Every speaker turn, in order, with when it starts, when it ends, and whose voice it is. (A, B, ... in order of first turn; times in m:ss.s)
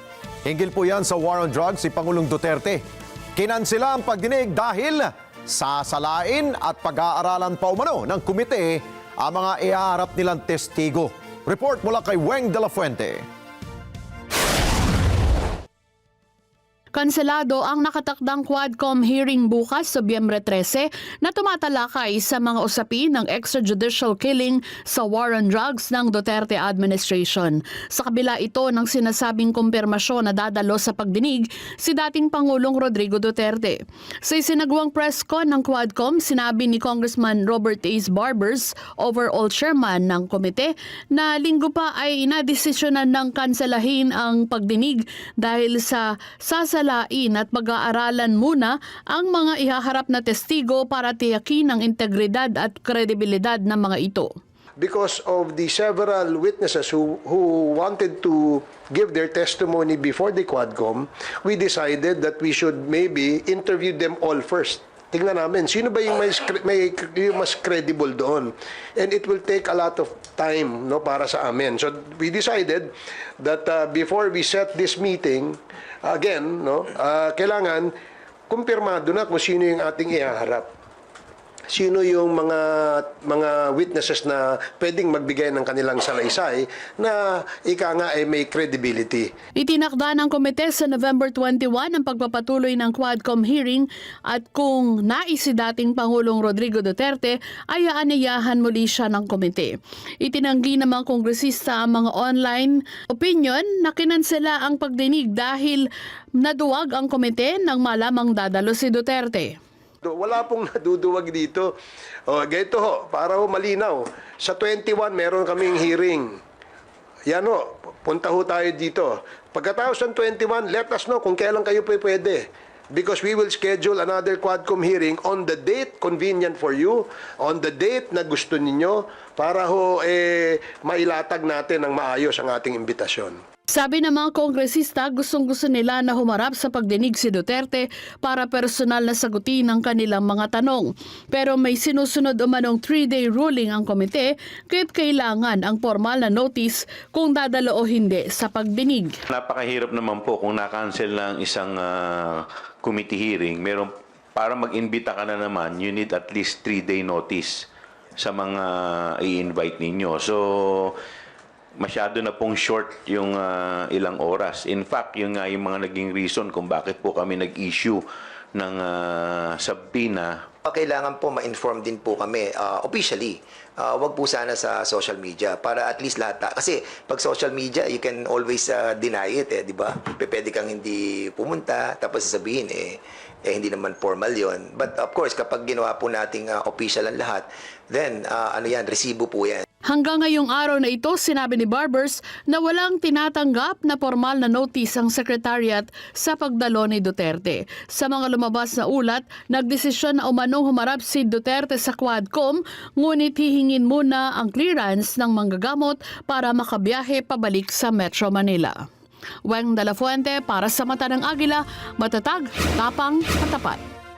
0:00.4-0:02.8 A
0:03.4-0:13.2 A
0:16.9-0:54.3 B
0:54.8-1:17.9 C
1:18.5-1:20.7 C
1:21.7-1:29.3 C
1:29.6-1:45.8 B
1:46.4-1:49.5 B
1:50.0-1:51.7 C
1:52.3-1:56.4 C
1:57.3-2:13.4 C
2:13.7-2:29.2 B
2:29.3-2:37.6 D
2:38.2-2:41.0 D
2:41.8-2:48.0 D
2:48.5-2:50.4 D
2:50.6-3:09.6 E
3:09.9-3:28.7 B
3:29.5-3:33.8 B